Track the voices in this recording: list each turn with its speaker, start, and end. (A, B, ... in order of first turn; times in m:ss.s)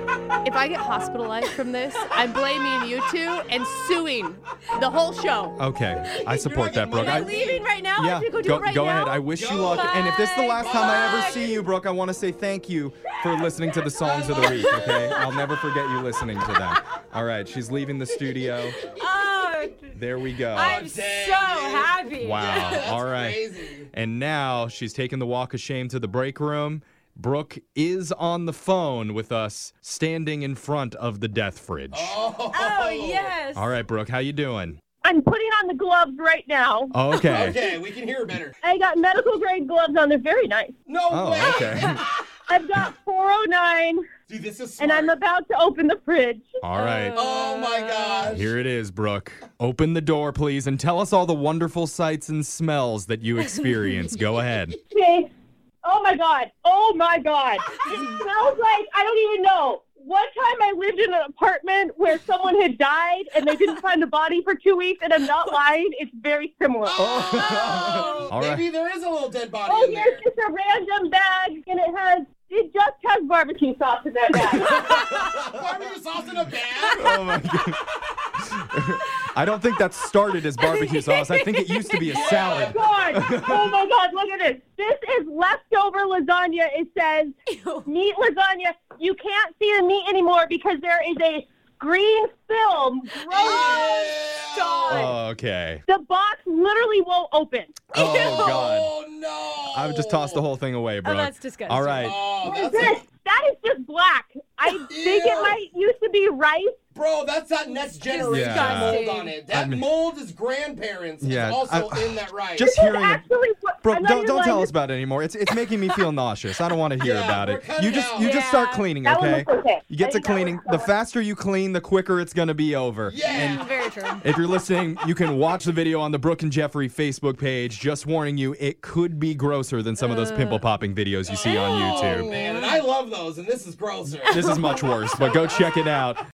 0:00.4-0:05.6 A
0:05.6-0:18.8 B
0:06.3-0:07.6 C
0:06.8-0:09.3 A
0:09.3-0:11.5 C
0:09.7-0:11.5 D
0:14.1-0:15.3 D
0:14.2-0:15.2 C
0:18.9-0:22.9 D
0:19.9-0:20.8 B
0:20.5-0:23.9 C
0:22.2-0:23.4 B
0:23.9-0:32.1 B
0:31.9-0:33.3 C
0:32.5-0:33.7 D
0:33.5-0:34.8 B
0:35.0-0:36.9 E
0:36.9-0:37.6 B
0:37.2-0:38.6 C
0:38.6-0:40.8 E
0:40.9-0:42.2 C
0:41.1-0:42.0 B
0:42.5-0:44.0 E
0:44.3-0:45.2 C
0:44.8-0:46.6 E
0:46.6-0:47.2 B
0:46.7-0:48.3 D
0:47.1-0:48.5 C
0:48.3-0:54.8 B
0:54.9-0:55.3 E
0:55.8-1:07.0 E
1:06.8-1:10.2 C
1:07.0-1:08.6 B
1:09.7-1:15.0 E
1:14.4-1:15.1 B
1:14.6-1:17.1 C
1:16.9-1:17.8 B
1:18.4-1:23.7 B
1:20.8-1:21.9 D
1:22.0-1:22.9 C
1:22.0-1:33.8 E
1:27.5-1:27.9 D
1:33.3-1:35.1 C
1:33.3-1:35.1 D
1:34.9-1:35.8 B
1:35.9-1:37.9 E
1:37.9-1:38.9 B
1:37.9-1:40.4 C
1:38.0-1:38.6 D
1:39.7-1:42.2 B
1:41.0-1:42.2 D
1:42.0-1:43.0 C
1:42.4-1:46.8 E
1:44.9-1:45.6 C
1:46.9-1:52.7 C
1:48.0-1:49.4 D
1:48.3-1:49.8 B
1:51.2-1:53.2 B
1:52.6-1:54.7 E
1:53.8-2:03.7 B
1:57.0-1:58.4 C
1:58.1-1:58.9 D
1:59.0-2:00.9 E
2:03.0-2:04.2 C
2:03.3-2:04.2 D
2:04.2-2:12.3 B
2:11.2-2:15.9 C
2:11.4-2:12.8 D
2:14.2-2:15.0 D
2:14.3-2:16.2 B